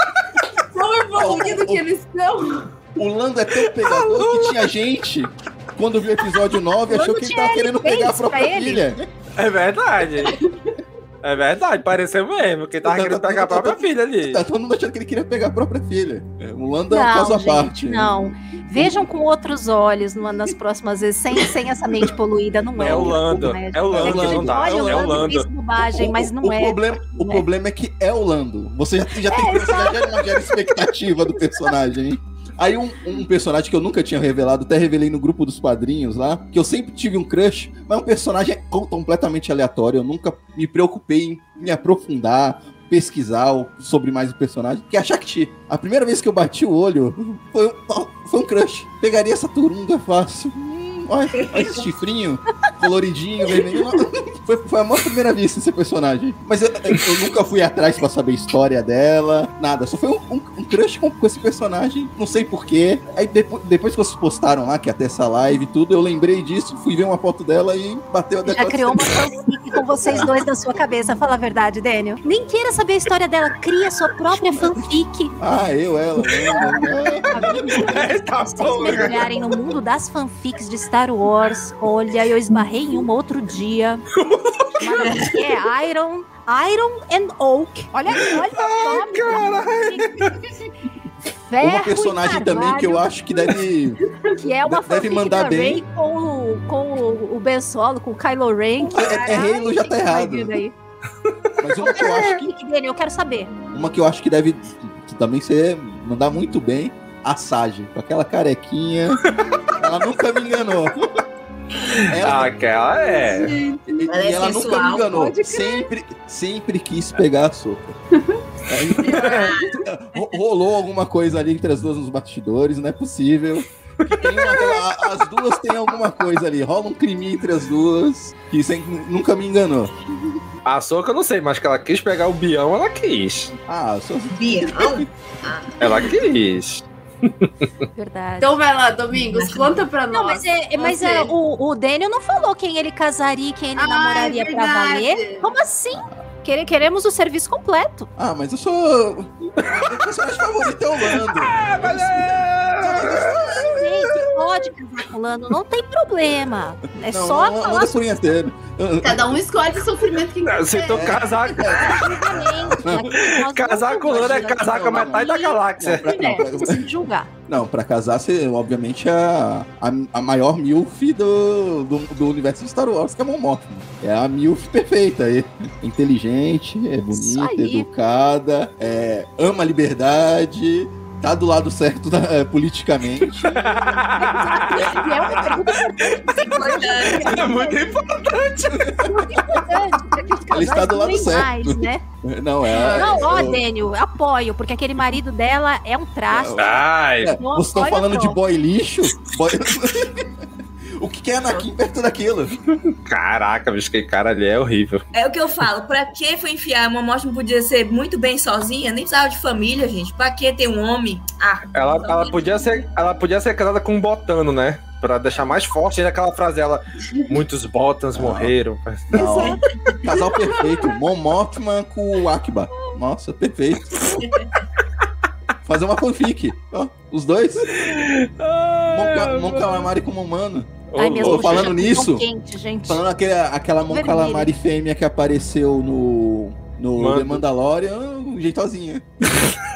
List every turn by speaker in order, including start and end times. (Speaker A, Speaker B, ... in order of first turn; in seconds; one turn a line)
Speaker A: 0.6-2.7
Speaker B: 1.1-1.8
Speaker B: 2.9-9.1
Speaker C: 3.8-4.7
Speaker D: 6.9-8.8
Speaker C: 9.4-10.4
Speaker C: 11.2-14.4
Speaker B: 12.8-19.0
Speaker D: 16.9-27.4
Speaker C: 22.8-25.5
Speaker B: 22.8-23.1
Speaker B: 23.9-69.2
Speaker D: 29.2-30.8
Speaker E: 51.3-51.8
Speaker D: 68.5-75.4
Speaker B: 75.4-78.0
Speaker C: 76.4-76.7
Speaker D: 77.3-84.0
Speaker C: 77.6-79.5
Speaker C: 84.2-84.7
Speaker D: 84.8-90.2
Speaker C: 88.1-90.3
Speaker D: 91.3-93.0
Speaker B: 91.6-94.0
Speaker D: 94.4-100.7
Speaker B: 94.7-95.8
Speaker B: 98.9-100.5
Speaker B: 101.6-102.5
Speaker D: 101.8-103.5
Speaker B: 103.7-109.2
Speaker B: 109.8-111.1
Speaker B: 112.1-112.5
Speaker C: 112.2-113.5
Speaker A: 113.0-114.0
Speaker B: 113.9-117.9
Speaker E: 114.1-115.1
Speaker A: 115.0-115.8
Speaker B: 118.7-129.9
Speaker A: 119.0-119.5
Speaker C: 119.1-119.4
Speaker E: 119.3-119.7
Speaker C: 130.7-133.5
Speaker B: 133.7-135.1
Speaker E: 134.3-136.0
Speaker C: 135.8-137.5
Speaker D: 137.9-138.5
Speaker A: 138.4-141.3
Speaker E: 139.4-139.7
Speaker D: 140.1-148.1
Speaker A: 143.8-145.5
Speaker B: 148.2-153.9
Speaker C: 151.2-153.5
Speaker D: 153.5-157.9
Speaker B: 157.1-159.4
Speaker A: 159.0-161.3
Speaker C: 160.4-162.0
Speaker B: 160.9-163.2
Speaker D: 161.7-167.3
Speaker C: 163.2-166.0
Speaker B: 164.0-166.8
Speaker B: 167.5-183.8
Speaker D: 177.1-177.9
Speaker C: 183.5-184.9
Speaker D: 184.1-187.9
Speaker B: 184.7-185.7
Speaker C: 186.0-186.3
Speaker E: 186.4-187.4
Speaker C: 186.9-188.9
Speaker B: 188.7-189.6
Speaker D: 189.0-192.0
Speaker B: 190.5-193.6
Speaker A: 192.7-193.5
Speaker D: 192.9-196.7
Speaker B: 196.3-200.3
Speaker C: 196.6-197.3
Speaker D: 197.4-198.4
Speaker B: 201.0-202.6
Speaker C: 203.1-205.0
Speaker E: 205.1-212.6
Speaker C: 211.7-219.5
Speaker B: 218.1-218.5
Speaker B: 219.1-224.2
Speaker B: 225.6-227.8
Speaker C: 227.7-229.9
Speaker B: 228.9-232.2
Speaker C: 230.9-231.7
Speaker D: 230.9-233.0
Speaker B: 232.9-239.0
Speaker D: 233.9-234.5
Speaker C: 237.0-237.4